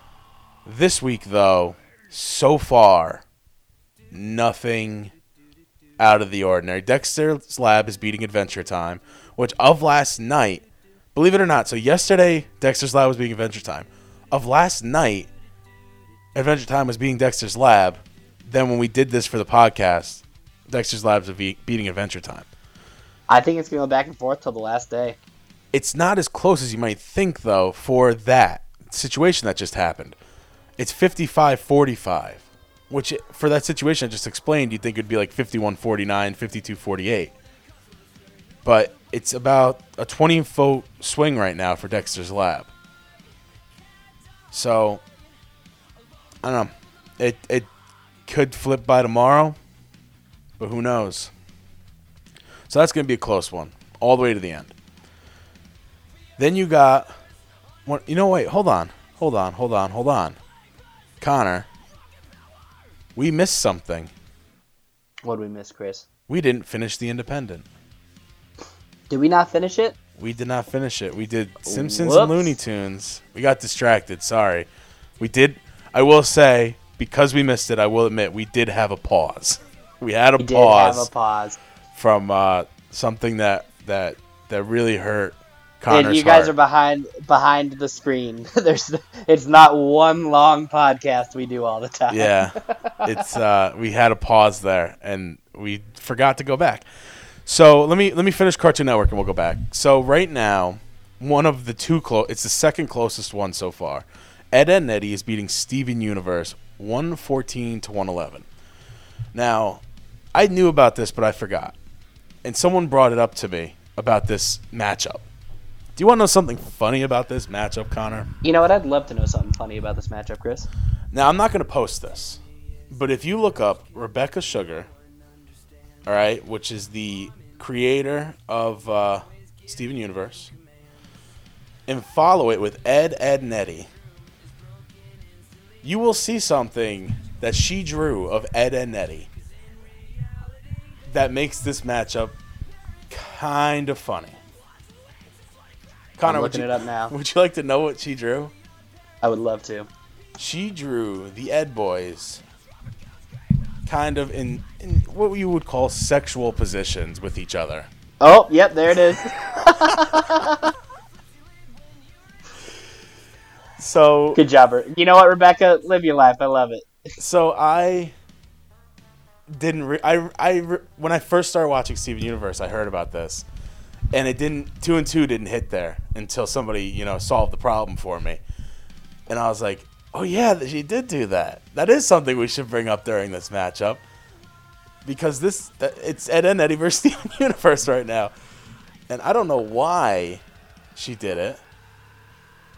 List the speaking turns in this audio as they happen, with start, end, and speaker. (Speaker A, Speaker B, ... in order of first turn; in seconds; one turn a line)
Speaker A: 0.7-3.2
Speaker A: 4.1-5.1
Speaker A: 6.0-15.3
Speaker A: 16.3-22.5
Speaker B: 23.3-25.2
Speaker A: 25.7-30.2
Speaker A: 30.8-37.3
Speaker A: 38.6-42.7
Speaker A: 44.5-45.0
Speaker A: 46.4-47.7
Speaker A: 48.2-49.6
Speaker A: 50.6-51.3
Speaker A: 52.7-54.7
Speaker A: 56.4-57.1
Speaker A: 57.9-60.4
Speaker A: 61.2-61.7
Speaker A: 63.1-64.1
Speaker B: 65.2-66.0
Speaker A: 66.3-67.7
Speaker B: 69.1-69.9
Speaker A: 70.2-74.7
Speaker B: 71.6-72.6
Speaker A: 75.2-81.1
Speaker B: 80.4-81.6
Speaker A: 81.9-86.5
Speaker B: 85.9-93.0
Speaker A: 92.1-96.8
Speaker A: 97.4-108.5
Speaker A: 109.3-109.8
Speaker A: 110.3-111.8
Speaker A: 112.4-115.2
Speaker A: 116.0-118.3
Speaker B: 118.4-120.7
Speaker A: 121.1-124.9
Speaker A: 126.0-130.5
Speaker A: 131.9-133.9
Speaker A: 135.8-139.3
Speaker A: 141.1-142.3
Speaker A: 143.1-144.4
Speaker A: 146.2-148.5
Speaker B: 146.2-147.1
Speaker B: 149.2-149.9
Speaker A: 150.4-152.4
Speaker A: 153.8-157.9
Speaker B: 158.2-160.7
Speaker A: 160.0-160.5
Speaker A: 163.8-164.4
Speaker B: 164.3-166.9
Speaker A: 167.2-168.1
Speaker A: 169.5-173.4
Speaker A: 174.1-178.4
Speaker A: 179.3-184.0
Speaker A: 185.0-188.3
Speaker A: 189.1-190.4
Speaker A: 190.9-191.6